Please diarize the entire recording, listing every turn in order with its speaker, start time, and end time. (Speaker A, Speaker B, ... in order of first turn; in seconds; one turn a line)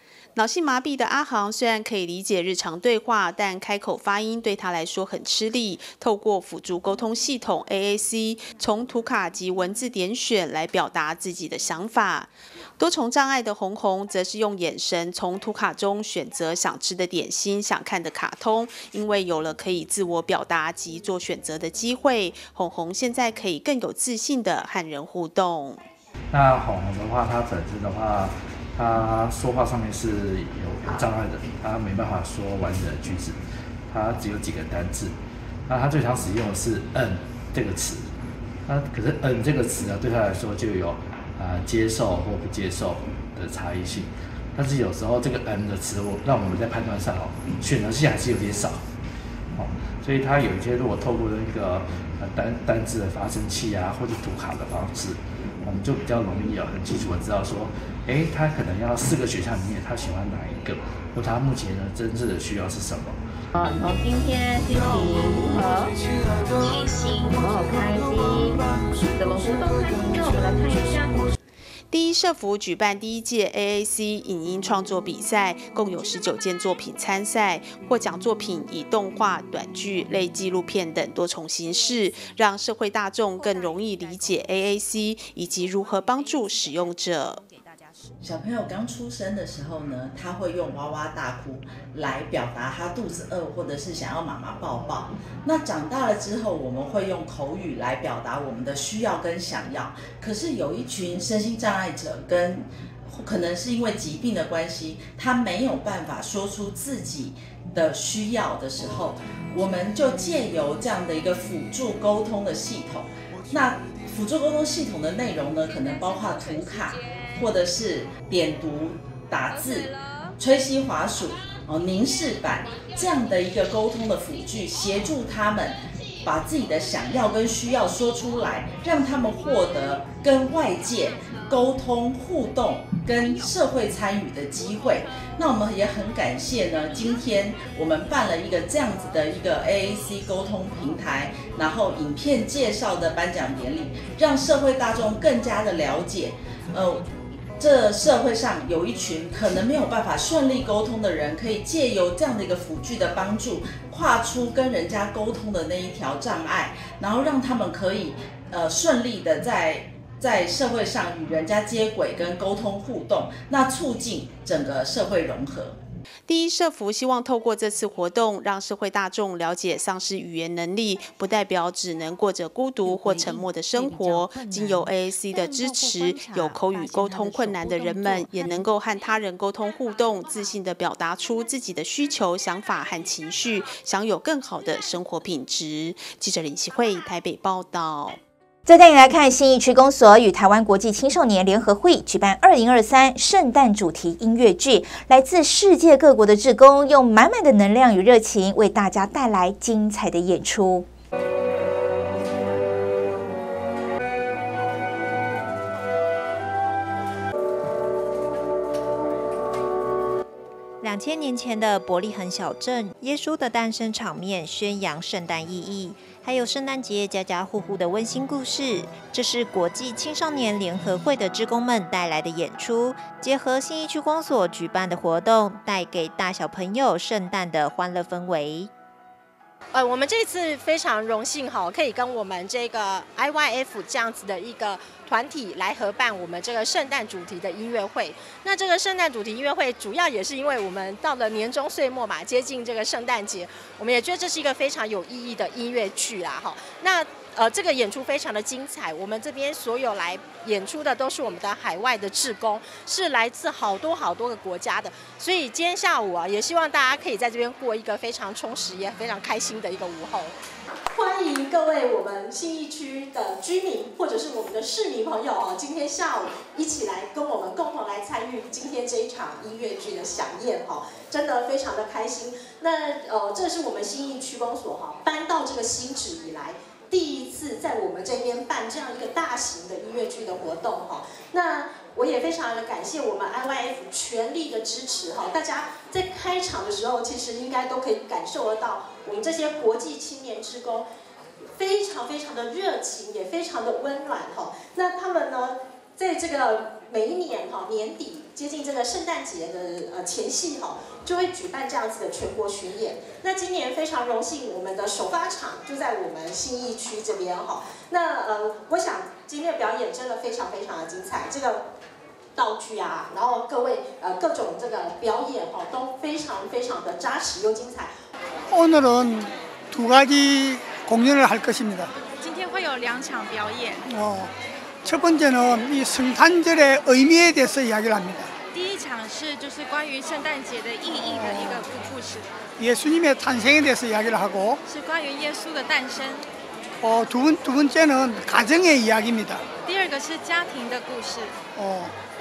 Speaker A: 0.3-25.8
Speaker B: 26.3-35.1
Speaker B: 35.7-38.1
Speaker B: 38.6-48.9
Speaker B: 49.5-63.2
Speaker C: 63.5-65.9
Speaker C: 66.6-71.3
Speaker A: 71.9-87.4
Speaker D: 88.2-119.7
Speaker D: 120.4-125.7
Speaker D: 126.2-147.0
Speaker D: 147.6-165.8
Speaker A: 166.3-188.2
Speaker C: 175.6-177.1
Speaker E: 188.7-200.9
Speaker F: 210.8-228.7
Speaker G: 229.7-260.3
Speaker G: 260.9-290.9
Speaker G: 291.5-311.6
Speaker G: 312.4-317.9
Speaker H: 318.5-321.9
Speaker I: 322.2-323.8
Speaker H: 323.8-324.3
Speaker H: 324.8-328.3
Speaker I: 328.5-332.4
Speaker H: 331.1-331.6
Speaker H: 332.6-334.6
Speaker I: 334.6-336.3
Speaker H: 336.8-339.4
Speaker I: 339.6-341.4
Speaker H: 341.6-341.9